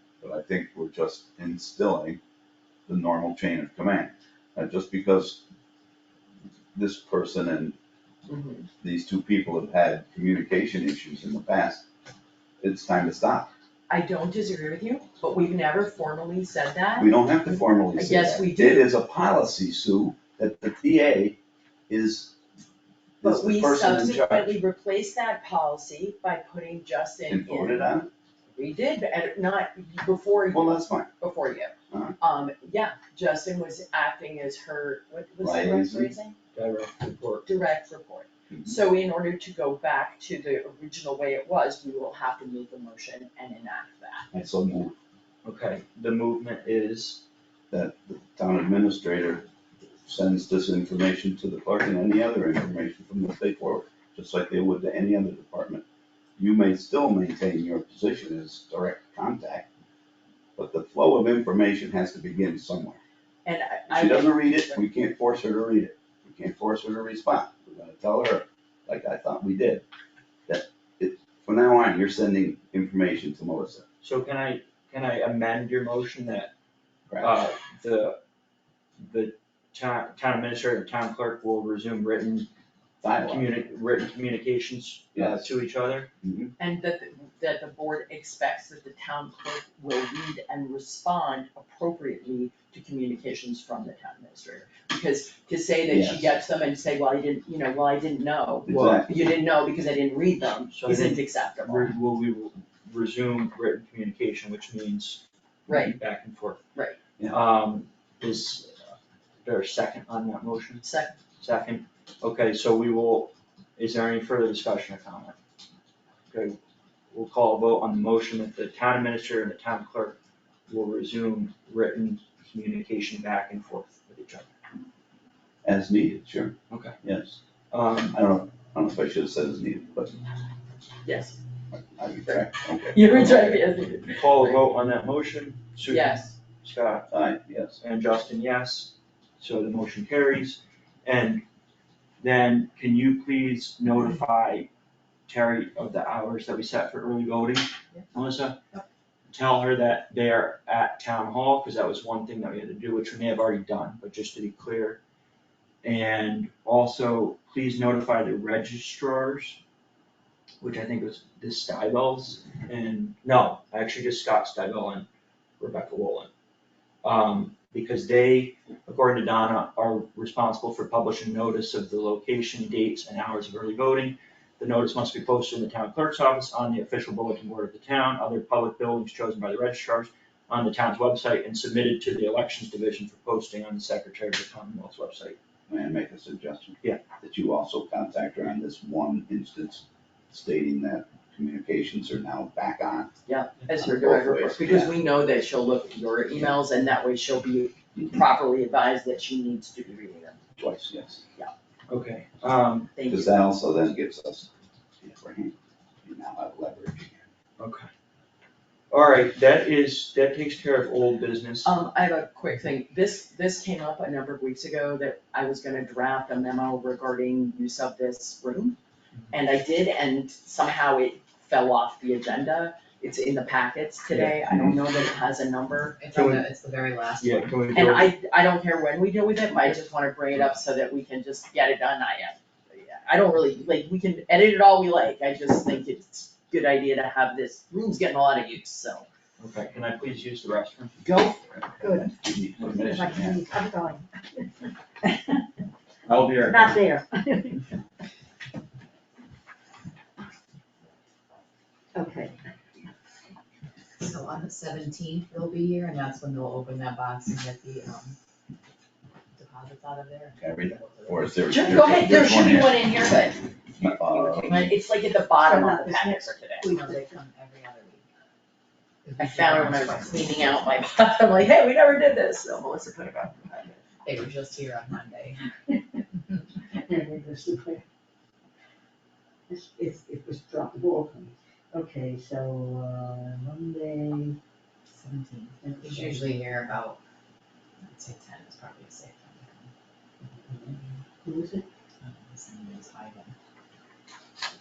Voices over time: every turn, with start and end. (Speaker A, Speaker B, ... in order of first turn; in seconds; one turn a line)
Speaker A: 0.2-2.2
Speaker A: 2.9-5.4
Speaker A: 6.7-7.8
Speaker B: 8.3-8.7
Speaker A: 8.8-11.8
Speaker A: 12.6-13.5
Speaker B: 13.9-18.9
Speaker A: 17.0-21.4
Speaker A: 21.9-22.3
Speaker A: 23.2-24.5
Speaker B: 23.2-27.9
Speaker A: 27.3-28.1
Speaker B: 28.5-36.4
Speaker A: 30.5-31.1
Speaker A: 31.9-32.2
Speaker A: 35.4-36.1
Speaker C: 36.5-37.5
Speaker B: 37.5-44.3
Speaker A: 38.5-38.8
Speaker A: 44.3-44.9
Speaker C: 45.4-47.2
Speaker A: 47.7-49.5
Speaker A: 50.0-55.8
Speaker A: 56.4-59.7
Speaker A: 60.6-63.0
Speaker B: 63.4-64.8
Speaker A: 63.9-69.8
Speaker A: 70.5-73.8
Speaker C: 74.0-76.5
Speaker A: 77.1-77.3
Speaker C: 77.2-78.2
Speaker C: 79.0-82.5
Speaker A: 83.0-83.5
Speaker C: 83.2-86.1
Speaker A: 85.1-85.5
Speaker A: 86.2-86.5
Speaker B: 86.6-101.9
Speaker A: 95.9-96.3
Speaker A: 98.7-99.2
Speaker C: 98.7-99.0
Speaker C: 100.7-106.6
Speaker B: 105.7-106.0
Speaker C: 107.3-108.8
Speaker C: 109.4-110.9
Speaker B: 110.8-111.1
Speaker C: 111.4-115.3
Speaker C: 116.3-116.6
Speaker C: 117.1-120.2
Speaker C: 120.7-124.5
Speaker A: 125.6-127.4
Speaker C: 126.7-127.0
Speaker C: 127.7-128.2
Speaker A: 128.1-130.2
Speaker B: 131.0-131.4
Speaker A: 131.7-133.2
Speaker B: 132.9-134.6
Speaker C: 133.1-137.1
Speaker B: 135.9-136.3
Speaker A: 137.1-137.8
Speaker C: 137.8-141.4
Speaker C: 142.2-144.7
Speaker C: 145.3-148.6
Speaker C: 149.3-155.0
Speaker C: 155.8-159.6
Speaker C: 160.6-165.1
Speaker C: 165.6-166.3
Speaker C: 167.0-185.4
Speaker A: 185.7-193.1
Speaker B: 193.2-200.4
Speaker A: 193.7-194.9
Speaker A: 200.6-201.2
Speaker C: 201.9-202.9
Speaker B: 202.9-203.3
Speaker A: 203.1-204.5
Speaker A: 205.0-207.3
Speaker C: 207.6-207.9
Speaker C: 208.9-211.7
Speaker B: 211.6-218.8
Speaker B: 219.3-226.3
Speaker A: 224.4-224.8
Speaker D: 226.0-227.6
Speaker C: 226.2-226.4
Speaker C: 227.2-228.1
Speaker B: 227.7-239.1
Speaker C: 239.4-241.0
Speaker A: 241.0-243.4
Speaker E: 241.8-245.4
Speaker C: 246.1-246.8
Speaker E: 246.4-247.7
Speaker E: 251.9-252.4
Speaker D: 254.0-258.1
Speaker D: 259.3-261.5
Speaker A: 260.4-262.9
Speaker B: 261.5-266.7
Speaker A: 263.8-264.8
Speaker E: 265.4-267.1
Speaker D: 266.7-268.0
Speaker D: 269.0-270.8
Speaker B: 269.2-273.8
Speaker D: 274.0-275.4
Speaker E: 276.7-277.8
Speaker E: 279.5-284.4
Speaker D: 284.9-287.0
Speaker E: 285.6-286.4
Speaker D: 287.8-289.7
Speaker E: 290.4-291.6
Speaker D: 292.0-293.3